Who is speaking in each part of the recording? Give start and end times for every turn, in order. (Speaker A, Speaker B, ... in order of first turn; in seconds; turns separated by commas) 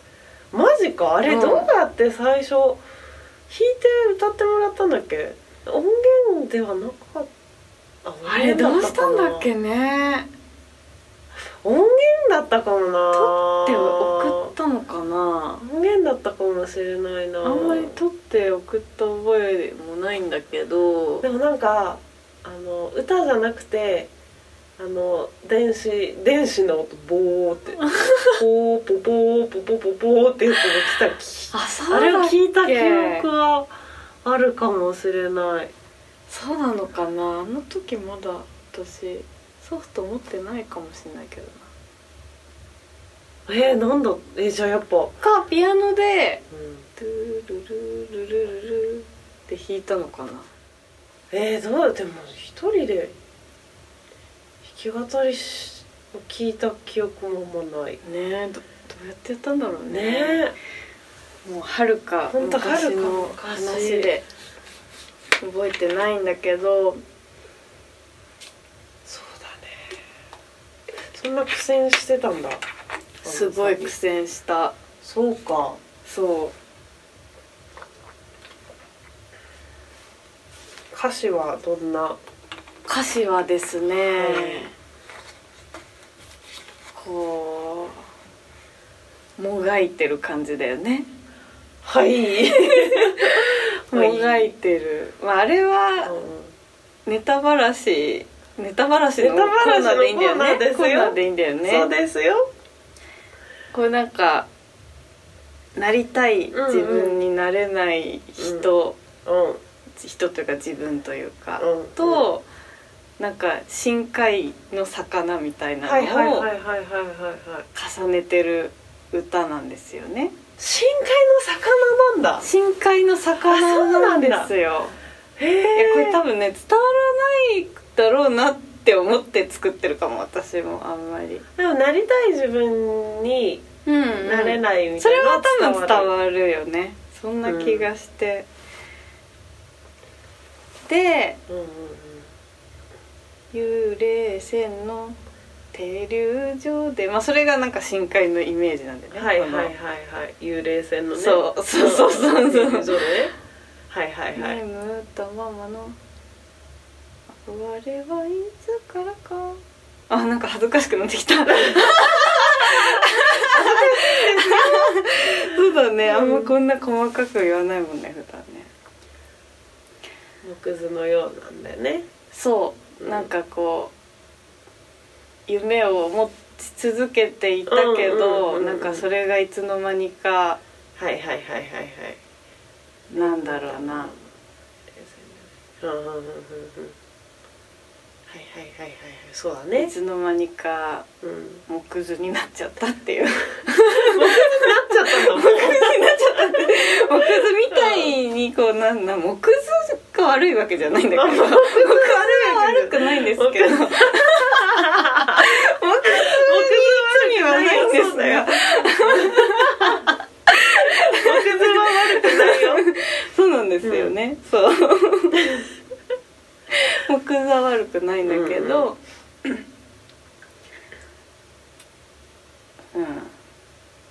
Speaker A: 0.5-2.8, Speaker B: 1.2-1.7, Speaker A: 3.5-7.3, Speaker A: 8.0-9.5, Speaker B: 8.2-10.3, Speaker A: 11.3-14.5, Speaker B: 13.1-15.6, Speaker A: 15.6-18.0, Speaker B: 17.4-21.2, Speaker A: 21.2-24.1, Speaker A: 24.8-27.8, Speaker B: 27.8-28.4, Speaker A: 28.3-33.7, Speaker B: 31.5-33.2, Speaker A: 34.2-35.7, Speaker B: 36.3-41.7, Speaker A: 43.5-45.1, Speaker B: 45.2-46.4, Speaker A: 46.5-46.8, Speaker B: 47.0-50.5, Speaker A: 51.3-53.1, Speaker A: 54.6-58.0, Speaker B: 58.0-60.4, Speaker A: 59.9-60.5, Speaker B: 61.4-64.2, Speaker A: 62.3-64.1, Speaker B: 65.4-67.0, Speaker A: 69.0-70.0, Speaker A: 71.1-72.6, Speaker A: 73.2-73.9, Speaker B: 73.2-74.8, Speaker A: 75.0-75.8, Speaker B: 76.0-76.5, Speaker A: 80.9-82.2, Speaker B: 82.8-84.7, Speaker A: 84.1-84.7, Speaker B: 86.9-88.0, Speaker B: 89.4-91.1, Speaker A: 91.8-94.5, Speaker B: 92.5-96.2, Speaker A: 96.0-96.5, Speaker B: 97.0-101.9, Speaker A: 99.2-102.5, Speaker B: 103.7-104.5, Speaker B: 105.8-109.0, Speaker A: 106.5-107.2, Speaker A: 108.4-108.7, Speaker A: 109.2-109.6, Speaker B: 110.0-112.5, Speaker A: 111.6-112.2, Speaker B: 113.2-116.5, Speaker A: 115.8-117.7, Speaker B: 117.7-120.3, Speaker A: 120.6-122.5, Speaker B: 122.4-125.0, Speaker A: 123.4-124.5, Speaker A: 125.4-126.2, Speaker B: 125.7-131.4, Speaker A: 131.6-133.7, Speaker B: 133.8-138.5, Speaker A: 134.2-136.1, Speaker A: 137.4-137.9, Speaker B: 140.9-141.4, Speaker A: 141.5-142.3, Speaker B: 143.5-145.2, Speaker B: 145.7-149.7, Speaker A: 149.1-153.3, Speaker B: 151.1-153.1, Speaker A: 153.9-154.6, Speaker B: 154.3-156.0, Speaker B: 157.3-168.7, Speaker A: 161.7-165.5, Speaker A: 166.0-166.5, Speaker A: 170.4-172.1, Speaker B: 172.3-173.9, Speaker A: 173.0-173.3, Speaker B: 175.5-180.6, Speaker A: 177.7-179.1, Speaker A: 180.9-182.2, Speaker B: 183.1-184.1, Speaker A: 183.1-184.2, Speaker A: 184.9-186.9, Speaker A: 188.3-189.9, Speaker B: 189.8-191.1, Speaker A: 191.2-191.6, Speaker B: 191.7-215.6, Speaker A: 193.9-196.8, Speaker A: 197.7-198.1, Speaker A: 201.1-210.1, Speaker A: 210.8-212.8, Speaker A: 213.8-214.1, Speaker B: 216.7-219.6, Speaker A: 218.2-218.9, Speaker B: 222.9-223.3